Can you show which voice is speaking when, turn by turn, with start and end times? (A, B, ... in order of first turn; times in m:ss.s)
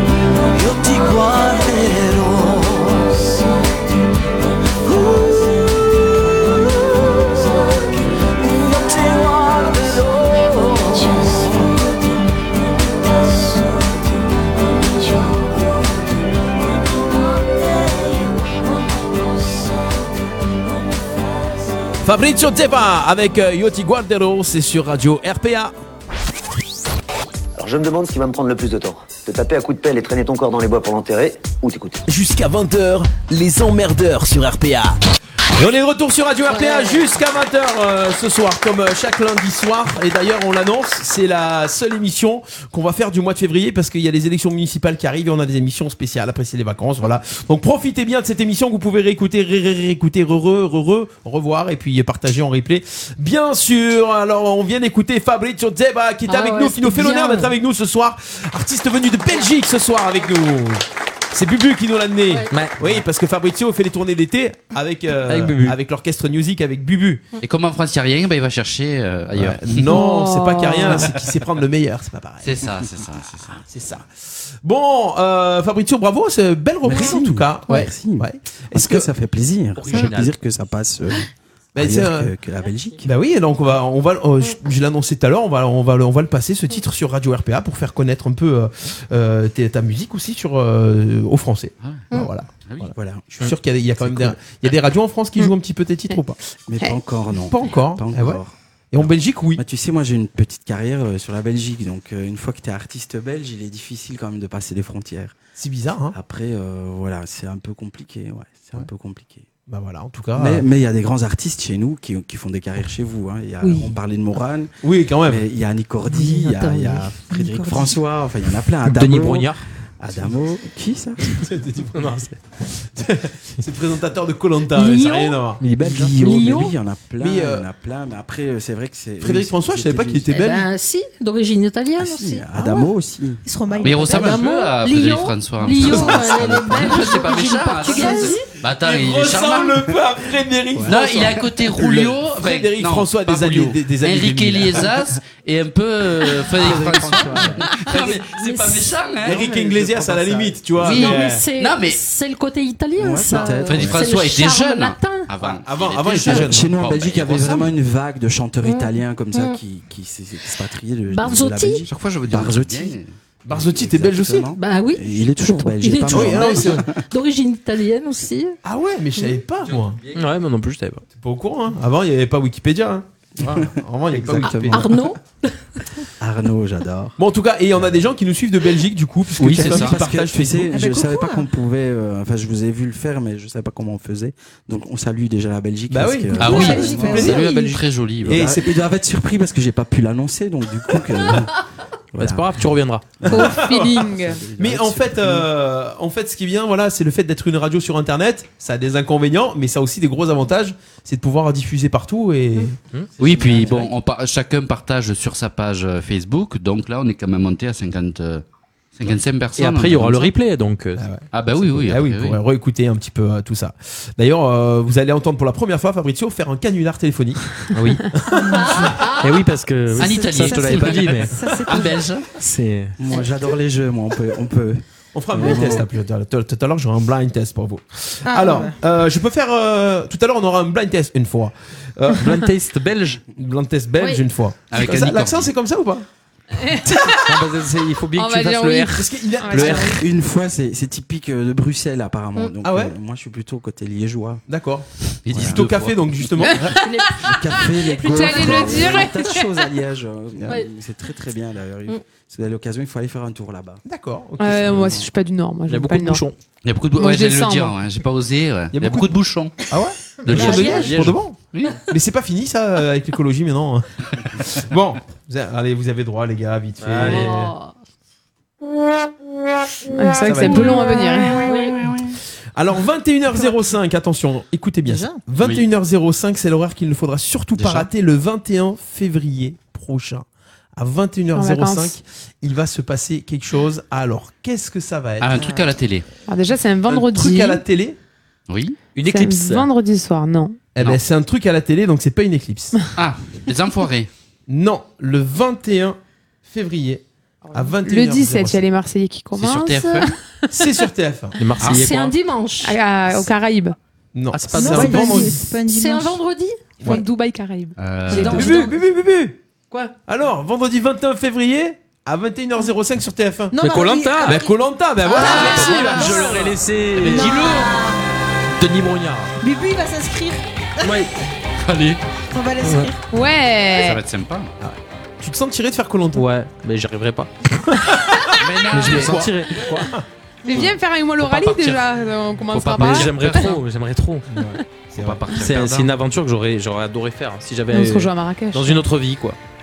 0:00.5-0:03.4 A
0:04.8-0:11.8 A
0:22.0-0:25.7 B
0:27.6-0:32.0 C
0:32.1-0:34.0 B
0:32.7-0:34.9 D
0:35.6-1:07.2 B
0:36.5-0:37.1 E
0:56.3-0:57.5 E
1:02.3-1:02.6 E
1:02.5-1:02.8 F
1:05.3-1:05.8 F
1:07.4-1:10.0 G
1:09.3-1:12.7 B
1:09.9-1:11.1 H
1:11.0-1:11.3 G
1:12.4-1:13.6 G
1:13.7-1:14.1 B
1:14.6-1:19.1 B
1:16.8-1:23.1 I
1:19.9-1:20.3 F
1:21.8-1:22.3 B
1:23.0-1:36.4 B
1:32.6-1:32.9 G
1:32.9-1:34.4 I
1:36.7-1:45.4 I
1:37.5-1:38.4 B
1:38.9-1:39.6 B
1:45.6-1:46.2 B
1:46.1-1:49.5 I
1:49.7-1:50.7 B
1:50.4-1:54.7 I
1:54.8-1:55.4 B
1:55.2-2:01.4 I
1:56.2-1:56.7 F
1:57.3-1:58.0 J
1:58.8-1:59.6 F
2:01.3-2:05.6 B
2:02.0-2:02.4 F
2:04.7-2:05.4 E
2:05.6-2:10.3 I
2:05.8-2:06.1 F
2:06.2-2:06.7 E
2:07.2-2:07.7 B
2:09.2-2:10.7 B
2:10.3-2:12.5 E
2:12.0-2:13.8 I
2:12.6-2:12.9 J
2:13.4-2:14.4 J
2:13.8-2:19.9 G
2:13.9-2:18.5 E
2:15.9-2:24.9 B
2:17.9-2:18.4 J
2:20.8-2:29.4 G
2:26.5-2:27.8 I
2:27.7-2:29.0 E
2:29.2-2:31.4 B
2:29.3-2:31.1 I
2:30.8-2:35.3 E
2:30.9-2:32.0 G
2:33.0-2:34.0 I
2:33.7-2:37.7 G
2:35.4-2:36.8 B
2:36.1-2:47.0 I
2:38.6-2:39.6 E
2:41.1-2:41.8 E
2:41.9-2:43.1 G
2:43.5-2:44.5 B
2:44.6-2:48.6 E
2:46.1-2:46.9 B
2:48.6-2:50.0 B
2:50.1-2:51.0 F
2:51.2-2:54.9 B
2:53.4-2:55.1 I
2:54.4-2:56.1 E
2:56.2-2:57.2 I
2:57.2-3:00.8 B
2:57.7-2:58.1 I
2:59.4-3:07.4 I
2:59.5-3:00.0 G
3:00.7-3:01.5 J
3:05.9-3:07.5 B
3:06.4-3:07.8 J
3:06.4-3:08.5 G
3:08.2-3:08.8 B
3:08.2-3:15.5 I
3:12.2-3:13.2 F
3:13.3-3:22.8 B
3:13.3-3:14.4 H
3:22.9-3:23.8 F
3:23.2-3:28.4 G
3:23.2-3:23.9 I
3:29.0-3:30.3 G
3:29.6-3:31.1 F
3:31.0-3:37.6 B
3:31.3-3:32.4 G
3:37.7-3:38.0 F
3:38.1-3:38.8 B
3:38.4-3:39.1 J
3:38.6-3:39.4 E
3:39.1-3:43.0 F
3:40.0-3:42.1 J
3:40.0-3:42.2 G
3:43.0-3:45.8 I
3:45.1-3:52.5 B
3:48.3-3:48.8 J
3:52.2-3:53.2 F
3:53.3-3:56.1 B
3:54.7-3:55.5 G
3:56.5-3:57.2 H
3:56.8-3:57.4 B
3:57.2-3:59.9 F
3:58.1-4:00.1 H
3:58.9-4:00.0 B
4:00.0-4:04.4 I
4:02.6-4:03.0 B
4:04.5-4:06.8 B
4:05.2-4:06.2 G
4:05.3-4:05.6 I
4:06.4-4:09.7 H
4:07.2-4:13.8 I
4:08.1-4:08.8 E
4:10.5-4:10.7 E
4:13.8-4:15.0 B
4:14.4-4:16.3 H
4:15.7-4:16.4 F
4:16.6-4:19.5 G
4:17.0-4:17.8 H
4:18.7-4:19.1 B
4:19.7-4:27.5 B
4:20.3-4:21.2 F
4:20.3-4:20.9 E
4:20.3-4:20.6 G
4:21.5-4:21.8 G
4:26.8-4:27.5 F
4:27.0-4:27.8 E
4:29.9-4:31.5 H
4:30.2-4:30.9 B
4:30.9-4:32.0 E
4:32.6-4:45.5 B
4:34.9-4:35.2 J
4:41.3-4:42.0 H
4:45.2-4:46.1 G
4:45.4-4:45.7 J
4:46.3-4:47.6 H
4:46.9-4:48.0 B
4:48.5-4:48.8 G
4:49.0-4:49.7 F
4:49.0-4:50.6 H
4:50.8-4:52.8 B
4:53.0-4:54.1 G
4:54.5-4:58.6 B
4:57.4-5:00.9 H
4:59.4-5:00.1 G
5:00.5-5:01.4 B
5:01.4-5:02.1 F
5:01.6-5:01.9 G
5:01.6-5:02.8 E
5:02.6-5:03.8 H
5:04.1-5:05.5 B
5:04.3-5:05.3 F
5:04.6-5:06.2 J
5:05.7-5:06.6 E
5:06.8-5:08.4 H
5:07.8-5:08.5 G
5:08.1-5:08.7 E
5:08.1-5:08.6 J
5:08.2-5:09.4 B
5:10.1-5:13.6 B
5:13.5-5:14.5 J
5:13.6-5:14.4 F
5:14.2-5:16.6 B
5:15.1-5:16.4 J
5:15.2-5:17.7 F
5:15.2-5:16.2 H
5:17.0-5:18.0 J
5:17.2-5:17.6 G
5:18.6-5:19.3 F
5:19.4-5:21.1 J
5:20.8-5:21.1 F
5:21.6-5:22.0 G
5:22.3-5:23.0 J
5:22.6-5:22.9 F
5:23.1-5:24.0 H
5:23.7-5:24.5 G
5:24.6-5:26.3 B
5:26.2-5:27.3 F
5:27.7-5:30.7 B
5:28.3-5:29.3 G
5:28.7-5:29.8 F
5:30.4-5:33.6 H
5:31.2-5:31.8 G
5:32.5-5:33.6 G
5:32.7-5:34.3 F
5:34.3-5:35.2 B
5:35.0-5:35.9 G
5:35.4-5:39.4 F
5:37.7-5:38.9 H